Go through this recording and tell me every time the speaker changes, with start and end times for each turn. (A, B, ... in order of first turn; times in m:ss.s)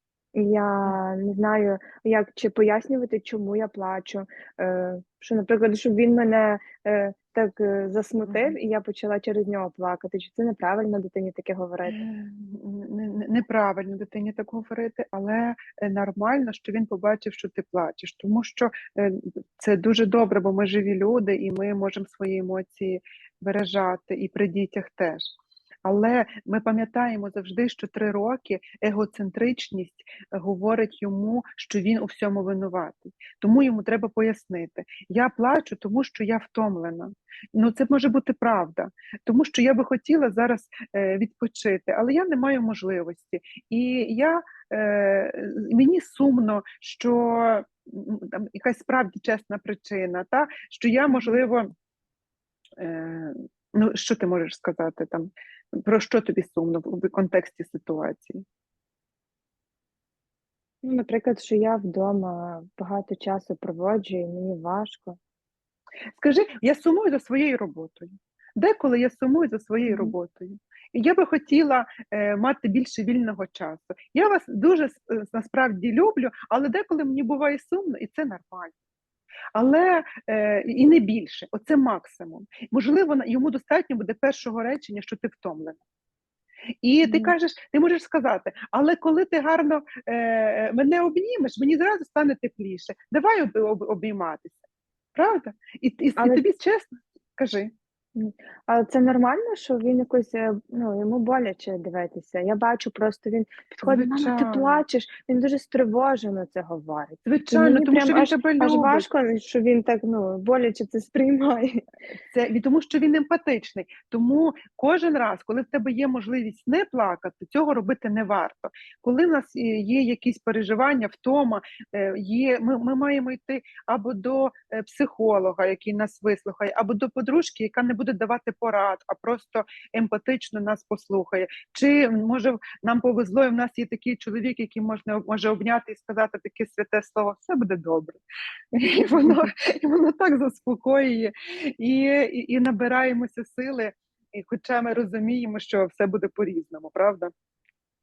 0:00.3-0:12.0 A
0:08.2-0:08.6 B
0:11.8-0:25.2 B
0:25.8-0:51.7 B
0:51.1-0:51.4 A
0:52.8-0:58.4 B
1:00.8-1:05.2 A
1:06.2-1:18.7 B
1:09.8-1:10.1 A
1:19.5-1:25.8 B
1:26.8-1:34.6 B
1:27.0-1:27.3 A
1:35.1-1:37.7 B
1:36.2-1:36.4 A
1:38.1-1:51.8 A
1:43.8-1:44.8 B
1:47.2-1:49.0 B
1:52.3-2:18.2 B
2:18.7-2:27.3 B